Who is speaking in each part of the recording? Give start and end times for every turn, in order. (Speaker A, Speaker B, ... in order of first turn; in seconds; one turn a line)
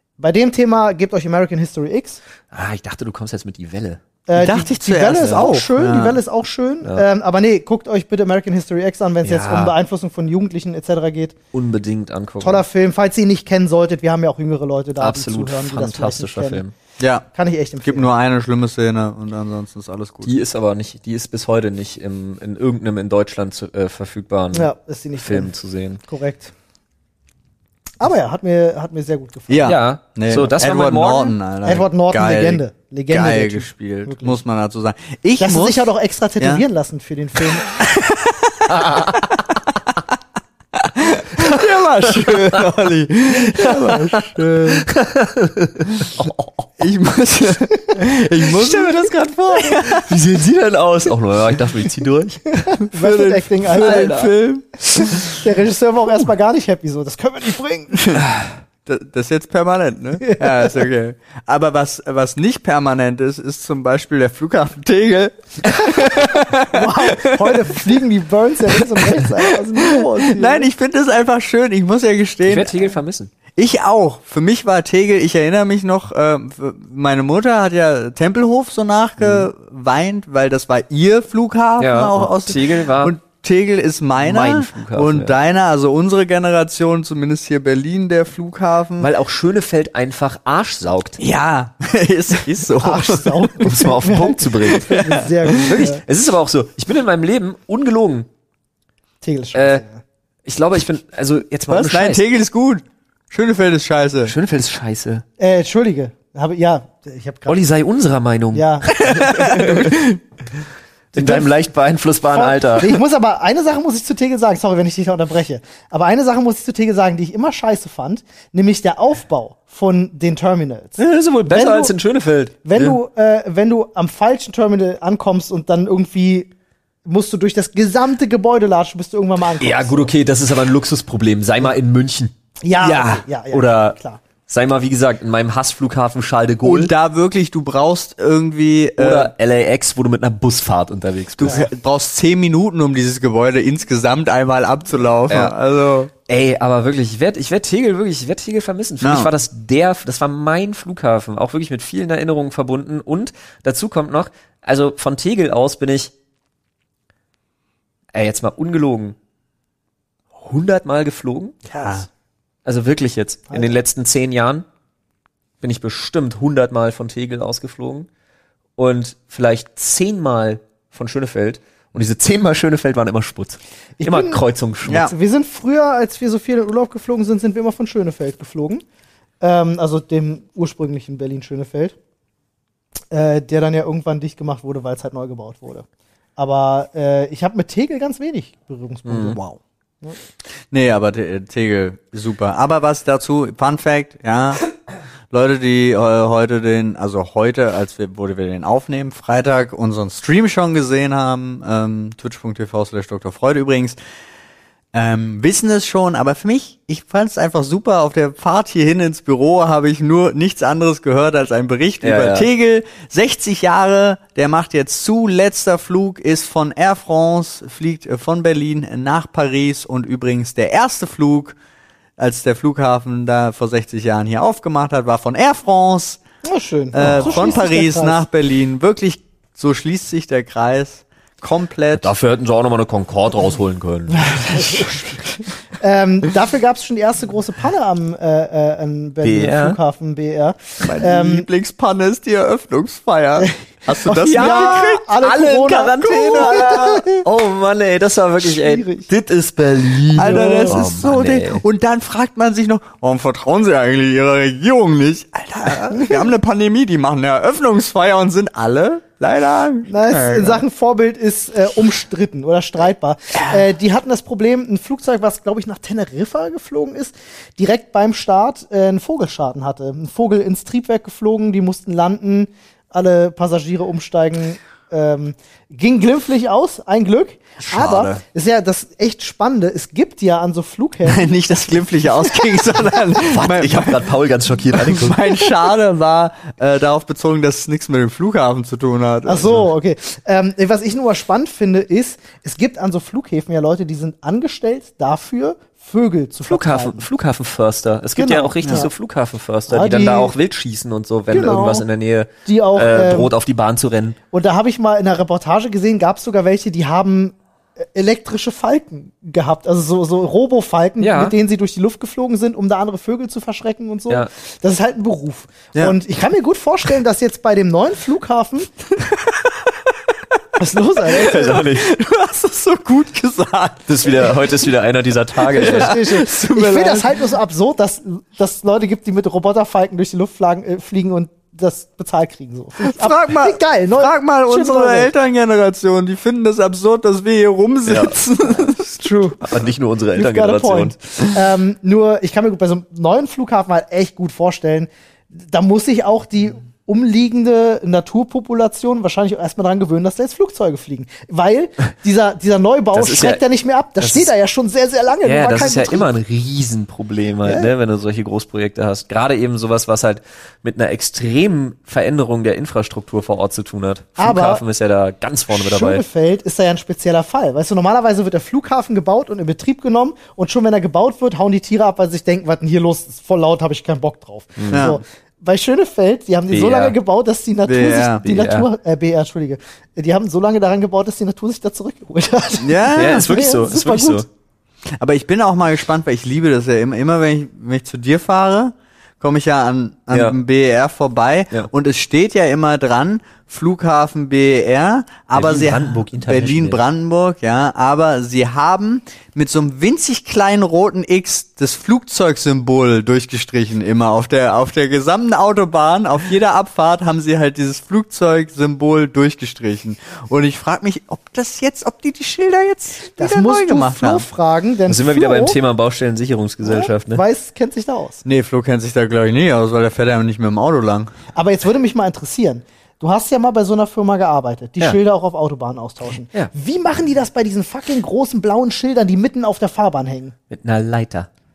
Speaker A: 0.2-2.2
Speaker B: 2.5-4.0
Speaker A: 4.3-11.3
Speaker C: 4.3-6.2
Speaker B: 9.2-9.7
Speaker B: 11.5-12.6
Speaker A: 12.4-16.6
Speaker B: 15.0-16.7
Speaker C: 17.0-17.3
Speaker A: 17.3-18.1
Speaker C: 17.8-20.3
Speaker B: 20.2-24.7
Speaker A: 24.5-25.5
Speaker B: 25.2-26.0
Speaker A: 26.0-26.5
Speaker A: 28.0-29.7
Speaker C: 29.5-36.6
Speaker B: 29.6-31.3
Speaker A: 31.6-34.4
Speaker A: 35.4-37.7
Speaker C: 37.5-39.8
Speaker B: 38.7-39.2
Speaker C: 40.7-44.9
Speaker B: 42.1-42.6
Speaker B: 43.3-46.6
Speaker C: 46.8-50.1
Speaker B: 48.5-52.7
Speaker A: 52.6-54.2
Speaker C: 52.9-55.2
Speaker B: 53.7-54.3
Speaker A: 54.9-58.1
Speaker C: 58.9-67.8
Speaker A: 60.2-60.8
Speaker A: 66.0-70.7
Speaker C: 68.7-72.9
Speaker B: 72.4-73.3
Speaker C: 73.5-89.1
Speaker B: 79.2-79.5
Speaker B: 81.8-83.1
Speaker B: 84.2-85.3
Speaker B: 89.0-91.2
Speaker C: 91.2-93.7
Speaker A: 92.8-96.0
Speaker B: 93.6-94.9
Speaker C: 94.7-95.8
Speaker B: 95.6-98.3
Speaker A: 99.2-100.0
Speaker B: 99.5-99.8
Speaker B: 100.5-102.2
Speaker C: 101.7-104.3
Speaker B: 104.2-105.2
Speaker A: 105.4-107.6
Speaker B: 107.5-110.0
Speaker A: 108.5-109.9
Speaker C: 109.0-110.2
Speaker B: 111.1-112.9
Speaker A: 111.2-111.5
Speaker A: 112.3-121.9
Speaker B: 121.0-123.0
Speaker A: 122.6-126.5
Speaker A: 127.0-130.1
Speaker B: 129.6-136.9
Speaker A: 132.6-134.2
Speaker C: 136.6-139.3
Speaker B: 139.0-141.6
Speaker C: 141.4-146.1
Speaker B: 145.3-145.5
Speaker B: 146.3-156.1
Speaker C: 149.0-149.3
Speaker B: 158.1-159.2
Speaker B: 160.4-161.6
Speaker C: 161.7-162.1
Speaker B: 162.7-164.6
Speaker B: 165.6-168.1
Speaker B: 168.8-175.1
Speaker A: 174.0-174.4
Speaker C: 174.8-175.1
Speaker A: 175.1-178.8
Speaker A: 179.4-181.9
Speaker A: 183.1-185.8
Speaker A: 186.4-190.2
Speaker B: 189.1-189.4
Speaker C: 190.7-194.6
Speaker C: 195.3-204.0
Speaker C: 204.9-221.6
Speaker B: 212.0-212.5
Speaker C: 222.2-226.2
Speaker A: 226.4-228.2
Speaker C: 226.9-232.1
Speaker B: 231.9-234.8
Speaker A: 234.1-235.2
Speaker A: 235.8-241.5
Speaker B: 239.2-239.8
Speaker C: 240.8-245.0
Speaker A: 243.4-247.2
Speaker B: 243.9-251.6
Speaker C: 246.0-246.8
Speaker A: 248.4-249.1
Speaker C: 250.1-260.6
Speaker A: 250.2-250.8
Speaker A: 259.9-281.2
Speaker C: 277.7-278.2
Speaker C: 281.1-284.1
Speaker B: 283.1-285.6
Speaker C: 284.7-289.6
Speaker A: 289.2-297.1
Speaker B: 296.4-304.2
Speaker A: 298.1-298.9
Speaker A: 299.7-300.3
Speaker A: 301.3-301.9
Speaker A: 302.4-303.3
Speaker A: 304.3-318.7
Speaker B: 311.0-311.3
Speaker C: 319.0-319.7
Speaker A: 320.6-321.6
Speaker B: 321.1-321.9
Speaker C: 321.3-324.5
Speaker B: 323.9-326.0
Speaker C: 325.4-327.2
Speaker A: 325.5-335.1
Speaker C: 332.8-338.9
Speaker B: 337.9-338.2
Speaker A: 338.9-339.4
Speaker B: 339.4-341.0
Speaker A: 340.1-356.1
Speaker B: 352.9-353.4
Speaker B: 354.0-354.3
Speaker B: 355.2-366.0
Speaker A: 357.4-357.7
Speaker A: 364.2-364.6
Speaker A: 365.5-384.2
Speaker B: 374.6-374.9
Speaker C: 374.7-375.0
Speaker B: 376.5-376.9
Speaker C: 377.6-378.2
Speaker B: 378.2-378.7
Speaker C: 382.6-383.3
Speaker B: 382.9-384.3
Speaker C: 384.9-414.2
Speaker B: 390.1-390.4
Speaker B: 395.3-396.8
Speaker A: 413.2-415.6
Speaker B: 414.9-417.2
Speaker A: 416.6-418.2
Speaker C: 418.2-421.1
Speaker A: 421.3-430.3
Speaker B: 430.5-431.3